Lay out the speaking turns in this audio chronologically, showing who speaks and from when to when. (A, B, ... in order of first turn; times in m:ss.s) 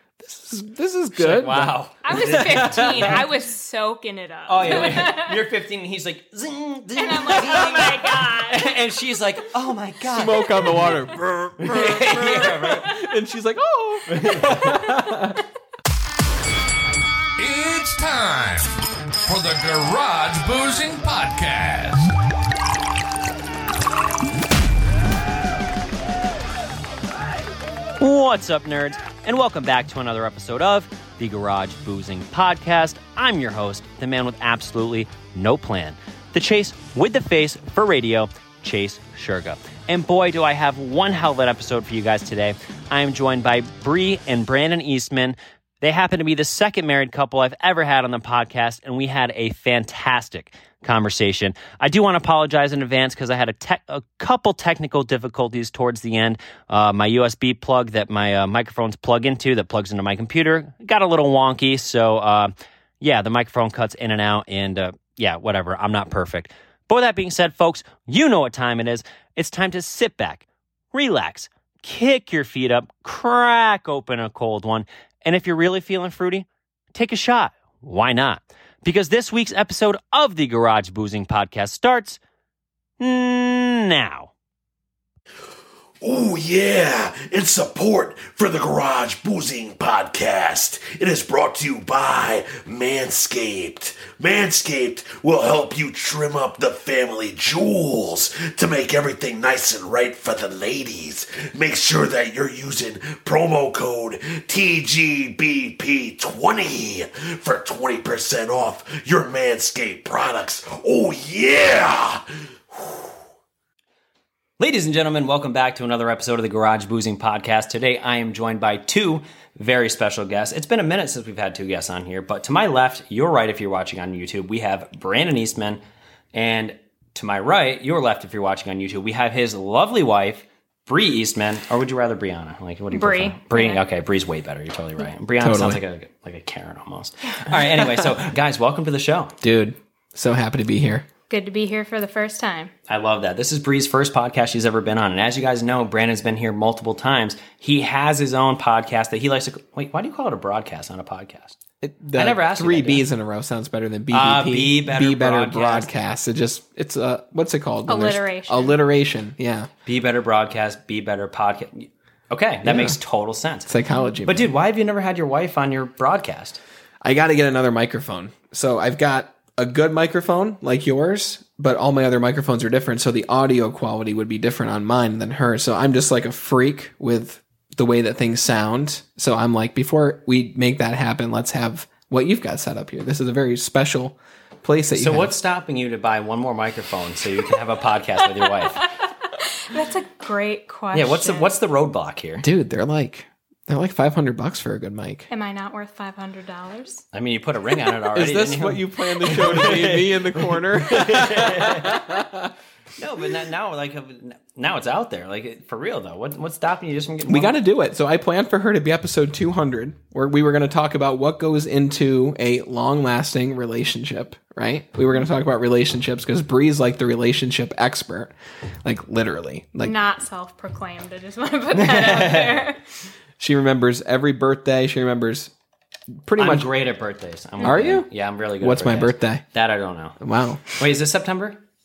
0:00.2-0:03.2 A
0:01.2-0:03.2 B
0:02.0-0:05.4 C
0:04.5-0:11.0 B
0:07.0-0:08.8 C
0:10.1-0:15.4 A
0:11.6-0:12.9 B
0:14.1-0:14.8 B
0:17.4-0:22.1 D
0:28.0-1:22.2 B
1:23.0-1:24.3 B
1:26.0-1:53.1 E
1:54.6-2:05.8 B
2:06.3-2:19.3 B
2:12.9-2:13.8 C
2:15.4-2:15.8 A
2:19.4-2:21.0 A
2:21.3-2:22.7 C
2:22.9-2:31.6 B
2:31.8-2:39.7 A
2:32.2-2:33.0 B
2:34.1-2:35.9 B
2:37.9-2:38.8 C
2:39.9-2:43.7 B
2:42.6-2:43.0 A
2:43.7-2:44.5 A
2:44.2-2:46.6 B
2:47.0-3:05.4 A
3:05.0-3:08.9 B
3:08.9-3:11.5 C
3:10.9-3:12.5 B
3:12.4-3:15.3 A
3:15.3-3:17.0 C
3:17.1-3:22.2 B
3:18.2-3:22.5 A
3:23.0-3:27.6 B
3:27.3-3:38.3 A
3:38.8-3:40.0 A
3:39.8-3:42.8 C
3:41.8-3:42.7 B
3:43.4-3:45.5 A
3:46.2-3:46.7 A
3:46.4-3:50.2 B
3:47.6-3:48.1 A
3:48.6-3:49.4 A
3:50.2-3:50.7 A
3:50.7-3:51.6 B